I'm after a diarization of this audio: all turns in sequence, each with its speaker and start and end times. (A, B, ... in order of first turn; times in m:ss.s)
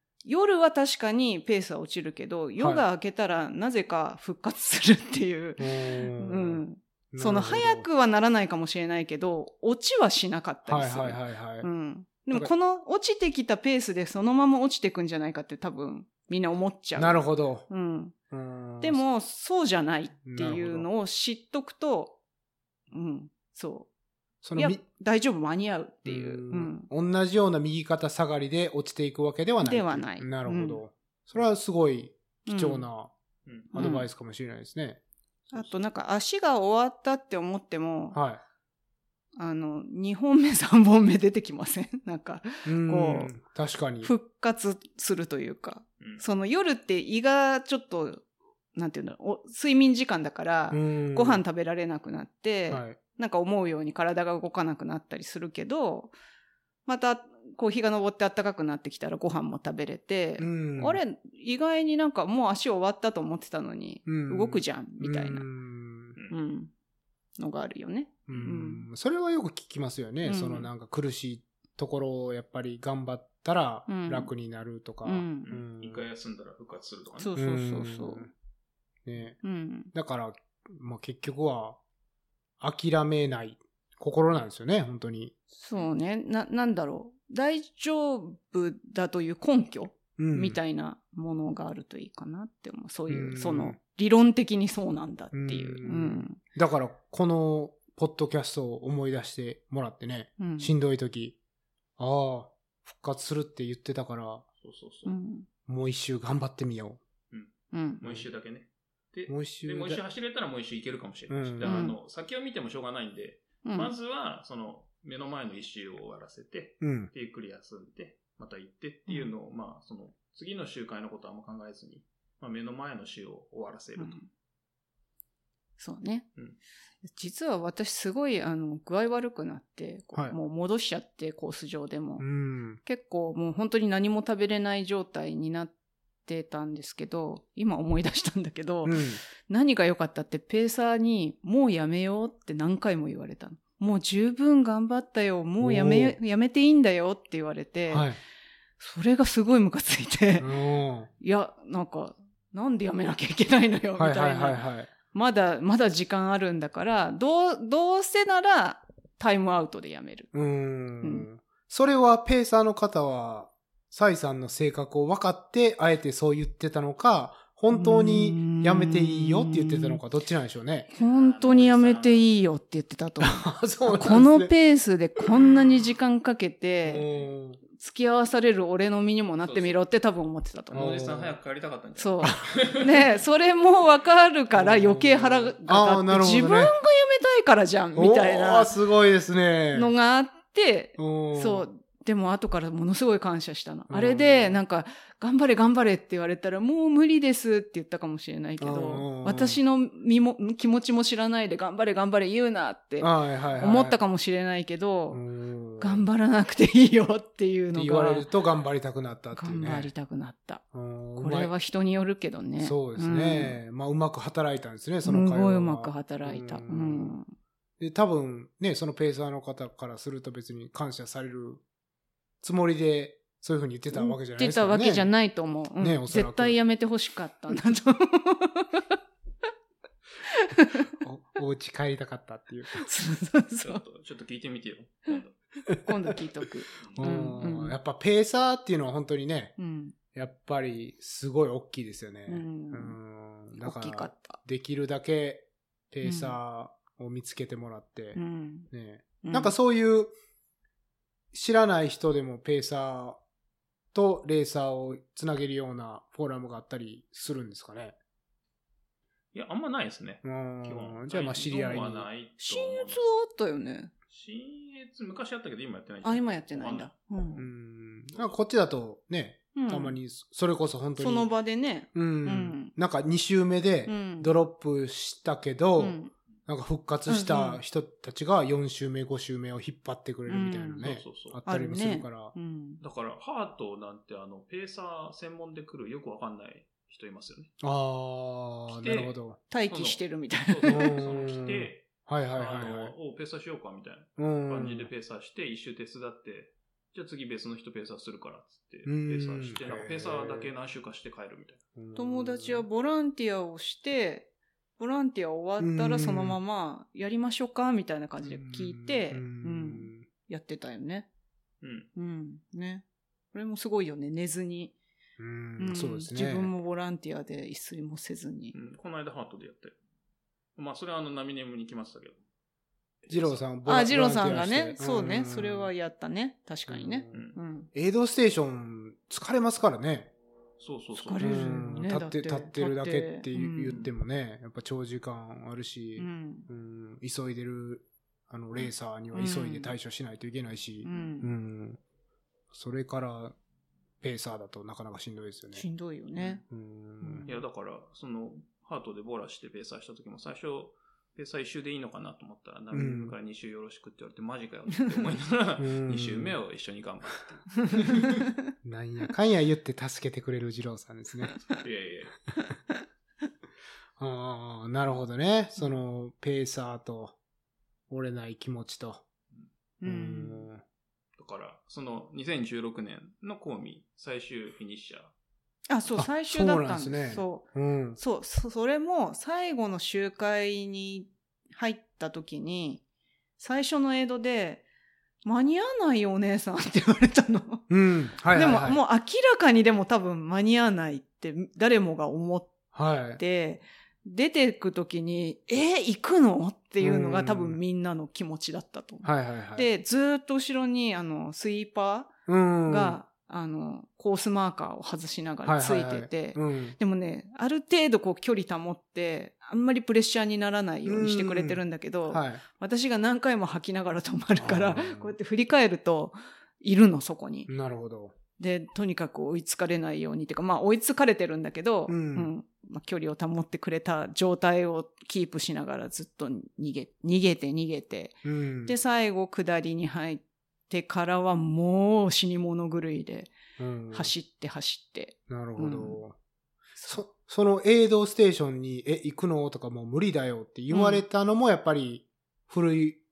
0:00.2-0:18.2 A
0:02.6-0:02.8 B
0:05.6-0:07.9 B
0:10.7-0:11.7 B
0:17.0-0:17.7 B
0:18.3-0:19.0 B
0:18.8-0:22.2 A
0:20.2-0:20.9 B
0:22.9-0:23.9 A
0:24.4-0:24.8 B
0:24.6-0:26.9 A
0:26.1-0:33.1 B
0:29.6-0:30.8 A
0:32.5-0:32.9 A
0:33.5-0:33.7 C
0:33.7-0:35.0 B
0:33.7-0:34.1 A
0:35.5-0:38.2 A
0:38.1-0:38.4 B
0:39.4-0:43.3 A
0:42.7-0:44.1 B
0:44.0-0:56.1 A
0:50.7-0:51.4 B
0:52.7-0:53.0 B
0:56.9-1:05.5 A
1:00.4-1:01.0 B
1:04.1-1:06.2 B
1:06.3-1:06.7 A
1:07.4-1:08.9 A
1:08.3-1:16.0 B
1:10.2-1:10.7 A
1:13.9-1:14.3 A
1:15.0-1:15.5 A
1:15.4-1:17.3 C
1:17.2-1:18.3 A
1:17.4-1:18.3 B
1:19.1-1:19.4 B
1:19.4-1:19.9 A
1:19.9-1:21.8 B
1:22.6-1:25.4 B
1:25.5-1:36.4 A
1:30.2-1:30.6 B
1:33.1-1:33.8 B
1:35.3-1:41.4 B
1:40.4-1:40.7 A
1:42.0-1:44.4 B
1:44.6-1:45.1 C
1:45.0-1:45.5 A
1:45.7-1:47.0 B
1:47.3-2:04.2 C
1:47.7-1:48.0 A
1:49.3-1:50.0 B
1:51.3-1:51.9 B
1:51.6-1:52.0 A
1:53.6-1:53.9 A
1:56.8-1:57.1 B
2:04.0-2:04.3 A
2:05.8-2:06.3 A
2:07.0-2:12.3 A
2:12.2-2:12.8 B
2:12.8-2:15.7 A
2:16.3-2:28.1 A
2:18.8-2:19.2 B
2:25.6-2:26.2 B
2:27.9-2:28.2 B
2:28.8-2:30.5 A
2:30.4-2:31.1 B
2:31.2-2:40.3 A
2:34.0-2:34.9 B
2:40.3-2:50.9 B
2:47.7-2:50.0 A
2:50.9-2:52.4 C
2:50.9-2:57.1 A
2:53.2-2:54.5 B
2:56.8-2:57.6 B
2:57.7-3:00.9 A
2:59.4-2:59.8 C
3:00.7-3:01.4 B
3:00.7-3:03.2 C
3:02.0-3:08.7 A
3:02.2-3:02.5 B
3:04.5-3:06.8 B
3:08.0-3:09.9 B
3:09.7-3:25.2 A
3:11.0-3:11.7 B
3:13.9-3:14.6 B
3:18.6-3:19.6 B
3:23.0-3:24.0 B
3:25.1-3:26.0 B
3:25.8-3:28.3 A
3:27.7-3:29.9 B
3:29.3-3:30.6 A
3:30.7-3:31.5 B
3:31.2-3:33.6 A
3:32.6-3:37.2 B
3:35.0-3:37.3 A
3:37.8-3:41.6 B
3:42.4-3:45.1 B
3:43.9-3:49.0 A
3:45.8-3:46.6 B
3:50.2-3:50.9 A
3:51.0-3:52.8 B
3:52.7-3:53.8 A
3:53.6-3:55.4 C
3:55.8-3:57.8 A
3:56.8-3:57.1 C
3:57.0-3:59.6 B
3:59.6-4:00.0 A
4:00.1-4:10.2 B
4:02.3-4:03.0 A
4:03.5-4:04.4 A
4:06.0-4:06.4 A
4:08.2-4:08.7 A
4:09.2-4:09.5 A
4:11.3-4:13.2 B
4:13.9-4:18.0 B
4:19.3-4:23.0 C
4:20.2-4:22.1 B
4:22.4-4:23.9 A
4:24.1-4:27.4 C
4:26.0-4:27.4 A
4:27.4-4:31.3 B
4:29.6-4:30.0 A
4:31.0-4:32.7 A
4:31.9-4:42.3 B
4:33.9-4:34.3 A
4:35.8-4:36.1 A
4:37.1-4:37.6 A
4:40.3-4:40.9 A
4:40.8-4:41.4 C
4:41.5-4:42.8 A
4:42.8-4:47.5 C
4:47.6-4:49.4 B
4:48.7-4:49.2 C
4:49.5-4:51.0 A
4:49.7-5:01.6 C
4:50.7-4:52.9 B
4:54.2-4:54.9 B
4:58.8-5:00.5 B
5:01.8-5:02.6 B
5:02.0-5:11.1 A
5:05.6-5:06.4 B
5:08.2-5:10.1 B
5:11.6-5:11.9 C
5:12.0-5:14.8 A
5:15.2-5:16.5 B
5:15.6-5:18.6 A
5:18.5-5:19.8 C
5:20.6-5:22.2 C
5:23.0-5:23.4 C
5:23.1-5:25.7 B
5:23.7-5:27.7 A
5:26.7-5:30.1 B
5:30.6-5:31.4 C
5:30.9-5:33.8 A
5:31.2-5:41.8 B
5:36.0-5:36.5 A
5:39.1-5:39.7 A
5:40.8-5:41.3 A
5:42.5-5:43.4 B
5:44.0-5:45.6 B
5:45.5-5:46.4 A
5:46.4-5:47.3 B
5:47.0-5:47.4 A
5:47.3-5:58.2 C
5:52.7-5:53.2 B
5:55.6-5:56.4 B
5:58.6-6:01.4 B
6:01.6-6:02.2 C
6:04.0-6:07.2 B
6:07.9-6:09.0 B
6:09.8-6:10.5 A
6:09.8-6:10.6 B
6:11.2-6:15.1 C
6:15.7-6:22.8 A
6:16.0-6:18.0 B
6:23.4-6:24.6 A
6:25.2-6:27.7 A
6:27.7-6:28.8 B
6:28.3-6:32.6 A
6:32.7-6:33.2 B
6:33.2-6:42.1 A
6:36.8-6:37.6 B
6:39.0-6:39.7 B
6:42.3-6:43.0 B
6:42.7-6:57.5 A
6:45.4-6:46.8 B
6:50.9-6:52.4 B
6:54.4-6:55.2 B
6:57.5-6:58.2 B
6:58.4-7:13.3 A
7:01.9-7:02.3 B
7:08.2-7:08.8 B
7:13.6-7:14.1 B
7:13.9-7:16.0 A
7:15.3-7:16.2 B
7:16.8-7:23.0 B
7:20.7-7:21.0 A